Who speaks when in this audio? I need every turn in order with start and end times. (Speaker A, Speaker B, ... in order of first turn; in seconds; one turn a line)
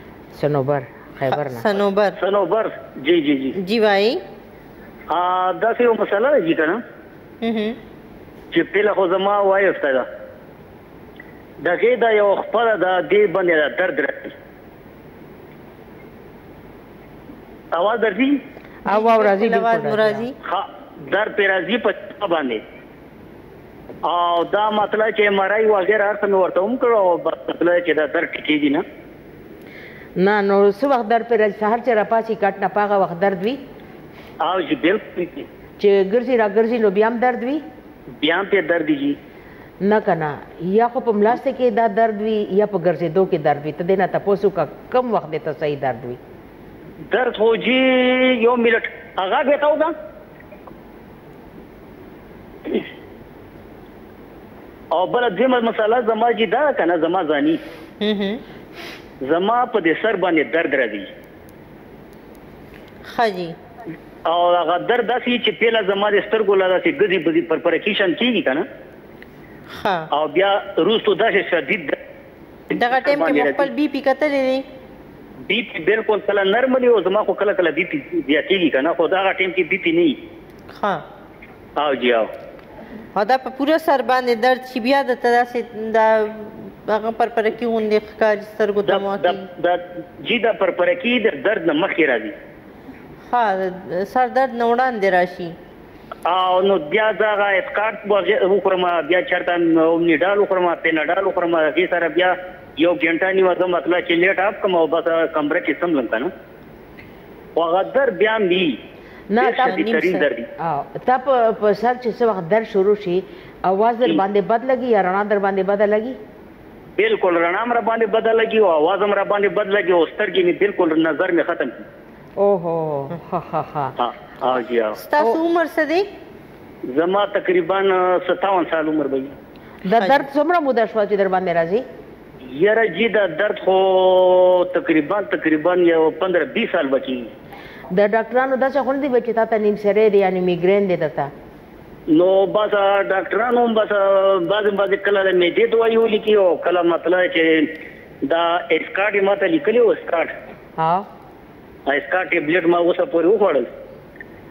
Speaker A: 0.3-1.6
Speaker B: 1.3-2.2
Speaker C: 2.2-3.5
Speaker B: 3.5-4.2
Speaker C: 5.1-6.8
Speaker B: 7.4-7.8
Speaker C: 8.5-10.1
Speaker C: 11.6-14.3
Speaker C: 17.7-18.4
Speaker A: 18.9-20.3
Speaker B: 18.9-20.3
Speaker C: 20.4-22.6
Speaker C: 24.0-28.8
Speaker A: 30.2-33.6
Speaker C: 34.4-35.5
Speaker A: 35.8-37.6
Speaker C: 38.2-39.2
Speaker A: 39.8-46.2
Speaker C: 47.1-49.9
Speaker C: 54.9-57.6
Speaker B: 58.0-58.4
Speaker C: 59.2-61.1
Speaker B: 63.1-63.5
Speaker C: 64.3-68.6
Speaker B: 69.7-70.1
Speaker C: 70.1-72.0
Speaker B: 72.7-74.6
Speaker C: 72.9-73.7
Speaker C: 75.5-80.2
Speaker B: 80.8-81.0
Speaker C: 81.8-82.3
Speaker B: 83.1-89.5
Speaker C: 88.9-92.3
Speaker B: 93.3-95.5
Speaker C: 96.3-106.3
Speaker C: 107.5-108.8
Speaker A: 109.3-109.9
Speaker C: 109.4-110.5
Speaker B: 109.6-110.2
Speaker A: 110.6-116.2
Speaker C: 117.0-121.8
Speaker A: 122.4-123.9
Speaker C: 124.0-125.0
Speaker B: 125.0-126.0
Speaker C: 126.9-129.3
Speaker A: 129.8-131.8
Speaker B: 130.0-130.2
Speaker C: 132.4-137.3
Speaker A: 137.9-141.3
Speaker C: 142.1-147.7
Speaker C: 148.2-150.3
Speaker A: 150.8-151.1
Speaker C: 151.9-153.7